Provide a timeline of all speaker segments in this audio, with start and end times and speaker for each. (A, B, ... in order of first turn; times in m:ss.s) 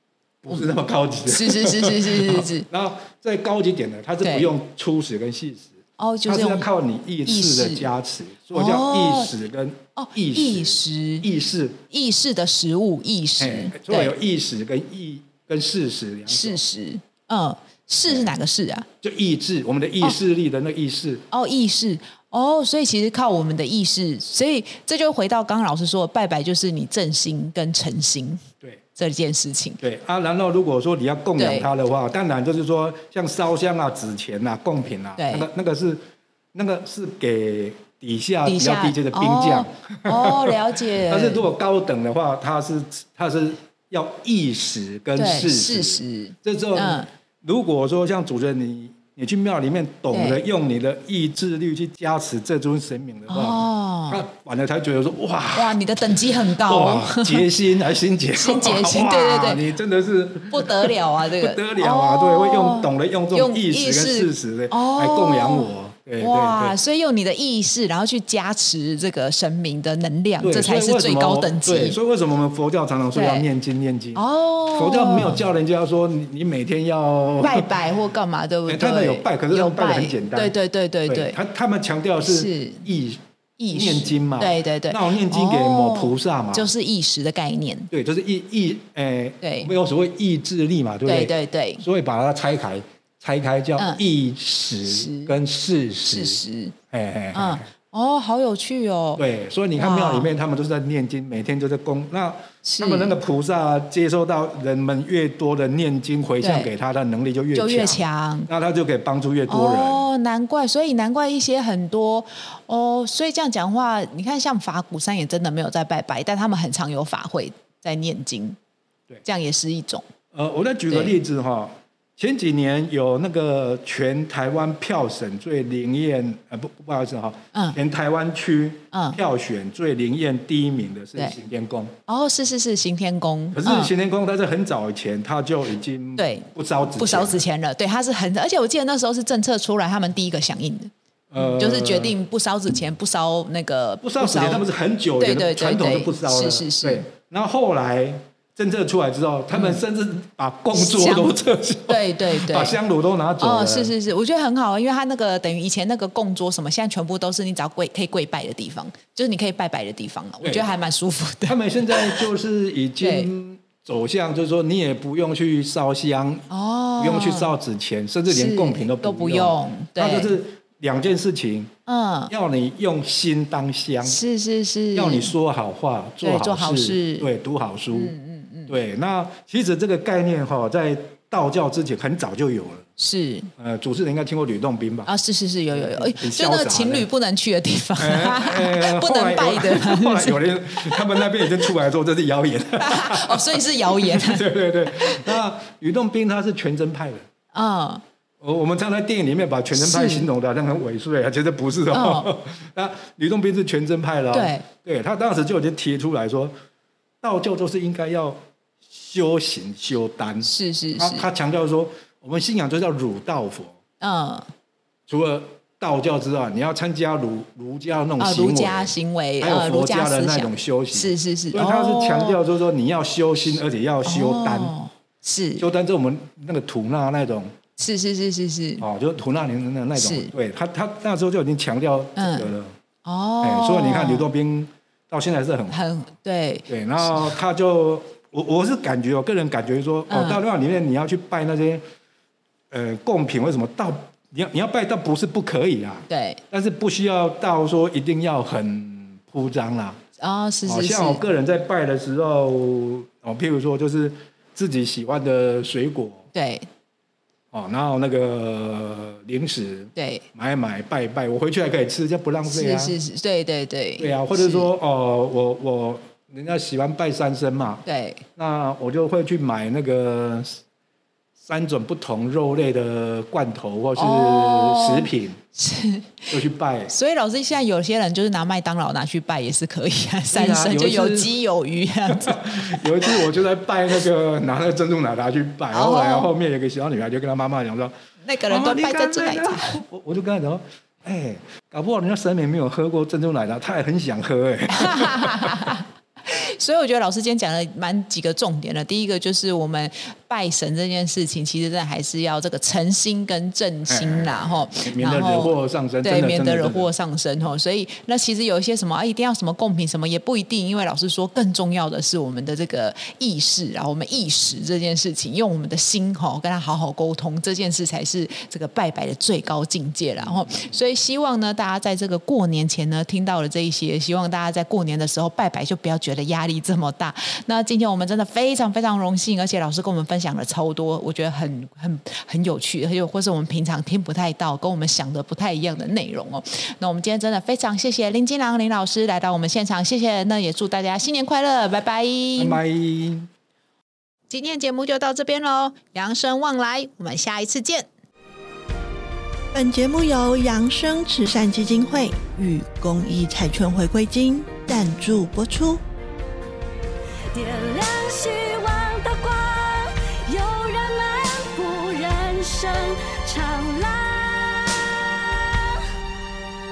0:00.4-0:11.8 A
0:01.3-0:02.7 B
0:04.2-0:04.5 B
0:06.0-0:06.7 B
0:07.2-0:07.9 B
0:08.5-0:09.3 B
0:10.0-0:11.3 B
0:11.9-0:14.1 B
0:13.4-0:16.6 A
0:16.3-0:18.9 B
0:18.1-0:18.3 A
0:19.0-0:21.2 A
0:21.3-0:28.4 B
0:29.0-0:29.8 B
0:29.8-0:36.0 A
0:31.4-0:31.7 B
0:35.2-0:35.5 B
0:36.5-1:06.8 A
0:38.4-0:41.4 B
0:45.2-0:47.1 B
0:50.1-0:50.4 B
0:53.3-0:54.2 B
0:55.5-0:57.5 B
0:58.4-0:59.7 B
1:00.5-1:12.0 B
1:10.4-1:17.7 A
1:13.1-1:13.5 B
1:14.2-1:15.4 B
1:17.4-1:21.4 B
1:18.7-1:20.5 A
1:21.1-1:23.2 A
1:22.2-1:22.8 B
1:23.6-1:27.9 B
1:23.7-1:26.7 A
1:27.9-1:37.6 A
1:29.4-1:29.7 B
1:31.1-1:31.8 B
1:34.9-1:35.4 B
1:36.0-1:36.8 B
1:37.3-1:39.2 B
1:39.2-1:50.1 A
1:39.7-1:40.3 B
1:42.6-1:43.2 B
1:46.4-1:46.7 B
1:47.5-1:48.5 B
1:49.5-1:58.6 B
1:59.2-2:00.1 B
2:00.3-2:11.9 A
2:00.9-2:01.1 B
2:08.9-2:09.2 B
2:12.1-2:13.9 B
2:13.5-2:17.4 A
2:16.2-2:24.7 B
2:21.3-2:22.2 A
2:24.0-2:33.9 A
2:25.2-2:27.0 B
2:29.5-2:29.8 B
2:30.7-2:31.4 B
2:31.9-2:32.8 B
2:33.4-2:42.3 B
2:40.4-2:40.7 A
2:41.5-2:46.5 A
2:43.0-2:43.3 B
2:46.5-2:47.5 B
2:47.0-2:51.7 A
2:48.3-2:50.4 B
2:51.9-2:52.3 B
2:52.3-2:54.2 A
2:54.0-2:55.3 B
2:54.9-2:58.2 A
2:56.2-2:57.3 B
2:57.9-2:58.8 B
2:58.7-3:02.9 A
3:03.0-3:03.5 B
3:03.6-3:05.1 A
3:05.1-3:11.5 B
3:05.7-3:07.1 A
3:08.0-3:17.2 A
3:12.8-3:15.4 B
3:17.5-3:18.0 B
3:18.4-3:26.5 A
3:19.7-3:20.3 B
3:21.9-3:22.3 B
3:24.3-3:24.7 B
3:27.2-3:33.8 A
3:30.4-3:31.3 B
3:34.0-3:34.5 B
3:35.1-3:44.7 A
3:38.2-3:42.4 B
3:44.0-3:45.7 B
3:45.6-3:47.5 A
3:47.8-3:48.8 B
3:48.8-3:52.7 A
3:50.0-3:50.3 B
3:52.2-3:52.5 B
3:53.0-3:54.3 B
3:53.4-3:55.8 A
3:55.7-3:57.4 B
3:56.7-4:01.8 A
4:00.1-4:00.4 B
4:02.7-4:10.0 A
4:06.1-4:06.4 B
4:10.2-4:11.2 B
4:10.7-4:16.3 A
4:16.3-4:16.7 B
4:17.5-4:23.0 A
4:20.0-4:20.2 B
4:22.5-4:24.7 B
4:24.0-4:27.8 A
4:27.8-4:28.2 B
4:28.4-4:30.6 A
4:31.4-4:35.4 A
4:34.0-4:36.4 B
4:36.3-4:36.9 A
4:36.9-4:43.3 B
4:40.3-4:41.4 A
4:42.1-4:47.9 A
4:45.7-4:46.3 B
4:48.2-4:49.8 B
4:48.5-4:55.8 A
4:54.7-5:42.6 B
5:03.9-5:06.9 A
5:42.4-5:43.3 A
5:44.3-5:47.9 B
5:49.5-5:55.8 C
5:57.3-6:05.9 D